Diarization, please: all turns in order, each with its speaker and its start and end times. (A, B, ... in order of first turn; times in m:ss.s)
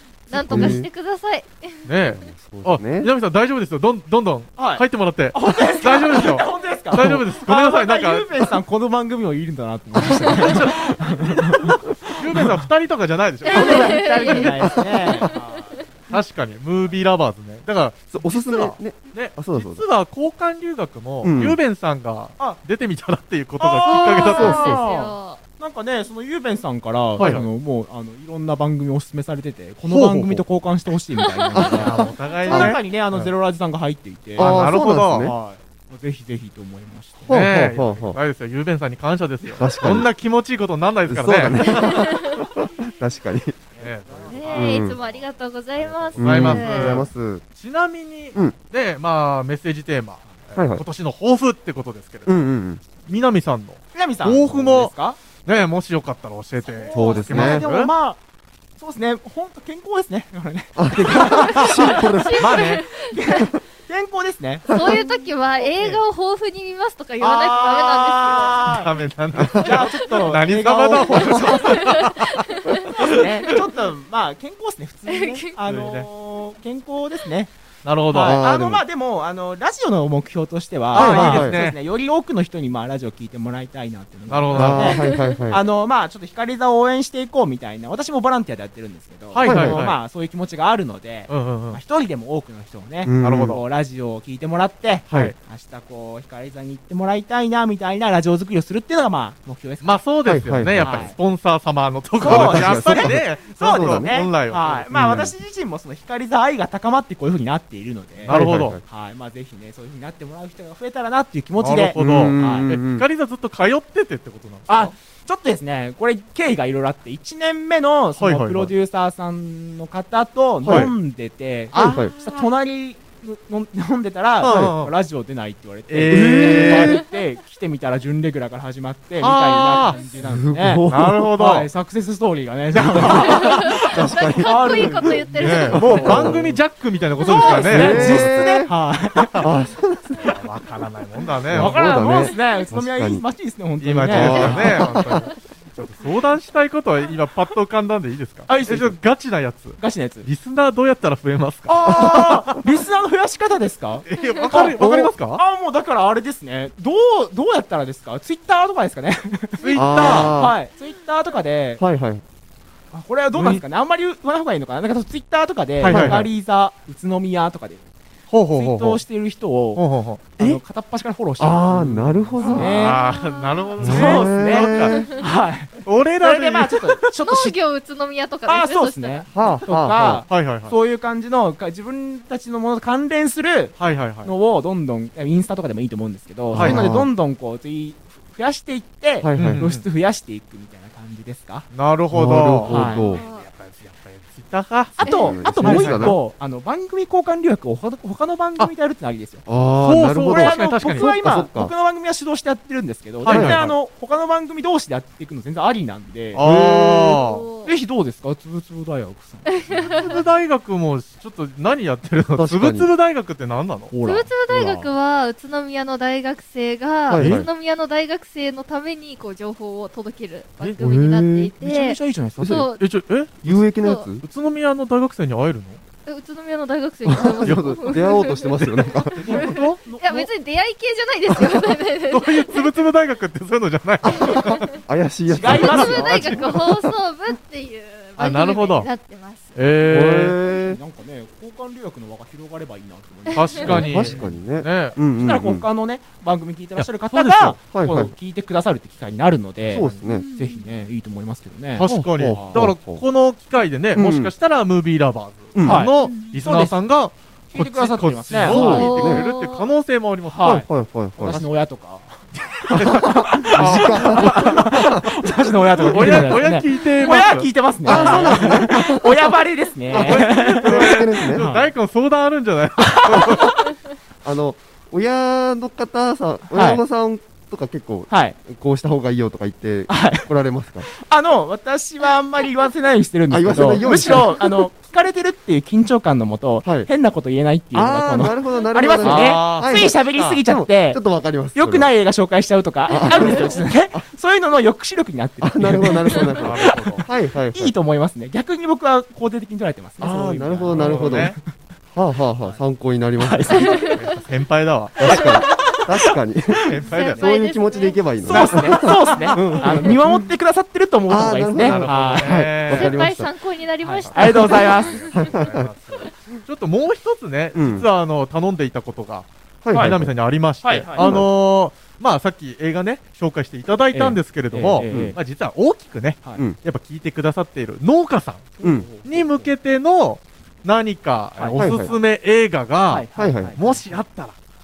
0:00.3-0:01.9 A
0:00.4-0:00.8 B
0:00.4-0:00.9 C
0:01.8-0:08.4 B
0:02.1-0:03.1 C
0:04.6-0:12.5 D
0:10.2-0:14.3 B
0:13.4-0:15.4 A
0:13.4-0:15.8 D
0:14.6-0:15.1 C
0:16.1-0:24.8 B
0:18.1-0:19.8 C
0:21.2-0:21.6 C
0:23.6-0:34.6 D
0:23.8-0:25.4 A
0:24.4-0:24.8 C
0:27.2-0:27.4 B
0:29.8-0:30.4 B
0:31.4-0:31.6 A
0:31.5-0:33.3 C
0:31.7-0:32.8 B
0:34.4-0:35.3 B
0:34.4-0:35.4 C
0:35.2-0:37.3 D
0:37.3-0:38.2 C
0:37.3-0:42.2 B
0:39.6-0:40.1 C
0:41.1-0:43.6 C
0:41.7-0:42.4 A
0:43.8-0:45.2 B
0:43.8-0:44.9 D
0:44.3-0:47.0 A
0:44.5-0:45.0 C
0:46.1-0:57.9 B
0:46.2-0:47.4 C
0:50.6-0:50.8 C
0:52.2-0:52.8 C
0:53.9-0:55.2 D
0:56.6-0:58.2 D
0:56.9-0:57.7 C
0:58.8-1:06.0 D
1:00.8-1:02.6 C
1:01.6-1:03.5 A
1:02.4-1:02.9 B
1:04.7-1:08.8 A
1:04.7-1:05.0 C
1:07.2-1:12.0 D
1:08.6-1:13.6 B
1:09.4-1:09.7 C
1:11.5-1:12.9 A
1:13.0-1:17.5 D
1:15.1-1:15.5 A
1:15.6-1:16.1 B
1:17.8-1:18.4 B
1:18.1-1:40.0 D
1:18.2-1:18.8 C
1:20.9-1:21.8 B
1:20.9-1:21.6 C
1:24.3-1:25.0 B
1:24.5-1:25.6 C
1:29.3-1:30.0 B
1:29.4-1:29.8 C
1:31.3-1:31.8 B
1:33.0-1:33.6 C
1:33.2-1:33.6 B
1:39.8-1:44.9 B
1:40.2-1:41.1 C
1:40.8-1:41.2 D
1:42.2-1:52.7 D
1:42.2-1:44.1 C
1:44.9-1:45.4 C
1:48.2-1:48.8 B
1:48.3-1:48.8 C
1:51.6-1:54.9 B
1:51.9-1:53.1 C
1:54.7-2:16.4 D
1:58.2-1:58.7 B
2:00.6-2:00.9 C
2:00.6-2:00.9 B
2:01.7-2:02.1 B
2:01.7-2:02.1 C
2:04.4-2:04.9 B
2:04.4-2:04.7 C
2:05.9-2:07.0 B
2:06.1-2:07.0 C
2:09.2-2:10.0 B
2:10.2-2:11.3 C
2:10.9-2:11.7 B
2:12.7-2:13.8 B
2:12.8-2:16.6 C
2:13.2-2:16.4 A
2:15.4-2:18.4 B
2:17.2-2:18.0 A
2:17.2-2:19.5 D
2:17.5-2:18.7 C
2:19.2-2:19.5 B
2:19.4-2:20.3 C
2:20.2-2:22.1 B
2:21.5-2:23.2 C
2:21.5-2:24.8 D
2:23.8-2:32.6 B
2:24.0-2:25.3 C
2:24.3-2:24.7 A
2:28.5-2:29.0 D
2:29.8-2:30.3 D
2:31.7-2:41.8 D
2:31.9-2:32.3 C
2:34.1-2:35.4 B
2:34.8-2:35.1 C
2:39.6-2:40.4 B
2:39.7-2:40.6 C
2:41.8-2:42.2 C
2:42.9-2:47.8 D
2:43.4-2:43.6 B
2:45.8-2:46.3 B
2:45.9-2:46.3 C
2:48.3-2:49.0 B
2:48.5-2:53.0 D
2:49.8-2:50.6 B
2:51.4-2:52.9 C
2:52.4-2:55.2 B
2:52.4-2:54.0 A
2:53.8-2:55.1 C
2:53.8-2:57.6 D
2:54.9-2:55.2 A
2:55.8-2:57.1 B
2:57.2-2:59.3 A
2:58.5-3:11.7 D
2:59.3-3:00.2 C
3:00.3-3:00.7 B
3:03.8-3:04.3 B
3:06.5-3:06.8 B
3:06.5-3:07.1 C
3:09.2-3:09.7 C
3:09.4-3:09.8 B
3:11.7-3:16.2 B
3:12.1-3:13.2 C
3:12.6-3:13.1 D
3:13.0-3:13.5 A
3:15.0-3:19.4 D
3:15.0-3:16.2 C
3:15.0-3:15.4 A
3:19.5-3:21.7 C
3:19.8-3:21.1 B
3:20.2-3:26.4 D
3:23.2-3:23.7 B
3:23.3-3:23.7 C
3:26.3-3:27.4 B
3:26.4-3:27.2 C
3:27.1-3:27.7 A
3:27.6-3:30.0 D
3:29.4-3:30.2 A
3:29.9-3:33.9 B
3:32.4-3:32.9 C
3:33.9-3:34.9 D
3:34.0-3:42.8 A
3:37.1-3:37.5 C
3:37.1-3:37.4 B
3:40.8-3:41.5 C
3:41.6-3:42.6 D
3:42.4-3:42.7 C
3:42.7-3:43.7 B
3:43.4-3:44.2 C
3:43.8-3:44.1 A
3:44.2-3:45.8 B
3:46.1-3:52.7 A
3:47.1-3:49.3 C
3:49.2-3:50.3 D
3:49.2-3:49.8 B
3:52.1-3:54.8 B
3:54.0-3:56.7 C
3:54.2-3:54.7 A
3:55.3-3:56.4 D
3:55.4-3:59.5 A
3:56.1-3:56.4 B
3:58.2-3:58.9 B
3:59.6-4:00.4 B
3:59.8-4:00.8 C
4:00.4-4:04.4 D
4:03.3-4:05.0 B
4:03.3-4:03.7 A
4:03.6-4:05.6 C
4:05.1-4:12.6 D
4:06.8-4:07.6 B
4:07.7-4:08.1 C
4:09.7-4:10.3 C
4:09.7-4:10.0 B
4:10.1-4:10.7 A
4:11.8-4:20.6 B
4:11.8-4:13.0 C
4:13.9-4:14.3 C
4:15.5-4:15.9 C
4:15.6-4:16.8 D
4:16.0-4:16.3 A
4:17.5-4:18.9 D
4:18.4-4:19.3 C
4:18.5-4:19.7 A
4:20.2-4:31.7 D
4:20.4-4:21.4 C
4:22.4-4:25.3 B
4:22.7-4:25.0 C
4:25.8-4:28.7 B
4:27.8-4:29.3 C
4:29.9-4:31.5 C
4:29.9-4:33.6 B
4:32.8-4:33.6 D
4:34.2-4:40.9 C
4:36.5-4:36.8 D
4:38.1-4:38.4 D
4:39.9-4:40.3 D
4:40.8-4:51.0 D
4:43.3-4:44.4 C
4:47.7-4:51.9 C
4:49.0-4:50.4 B
4:51.5-5:01.4 D
4:52.9-4:54.0 C
4:52.9-4:53.6 A
4:55.4-4:57.7 C
4:56.4-4:57.1 B
5:00.0-5:01.4 C
5:00.7-5:01.4 B
5:01.9-5:03.9 C
5:03.2-5:03.9 D
5:03.5-5:04.0 A
5:03.7-5:05.0 B
5:05.0-5:10.3 C
5:05.1-5:05.8 A
5:05.1-5:06.1 D
5:06.6-5:07.3 B
5:06.9-5:09.4 A
5:08.2-5:12.5 D
5:11.1-5:13.3 C
5:11.6-5:13.0 B
5:12.7-5:15.3 A
5:13.8-5:34.4 B
5:14.1-5:15.0 D
5:15.1-5:15.7 C
5:17.5-5:17.9 C
5:19.6-5:20.1 C
5:19.7-5:20.0 D
5:20.6-5:21.2 D
5:21.0-5:21.3 C
5:23.9-5:25.2 D
5:24.9-5:25.1 C
5:28.6-5:29.5 D
5:28.6-5:28.9 C
5:31.4-5:31.6 D
5:31.6-5:31.9 C
5:32.9-5:33.9 D
5:33.2-5:33.6 C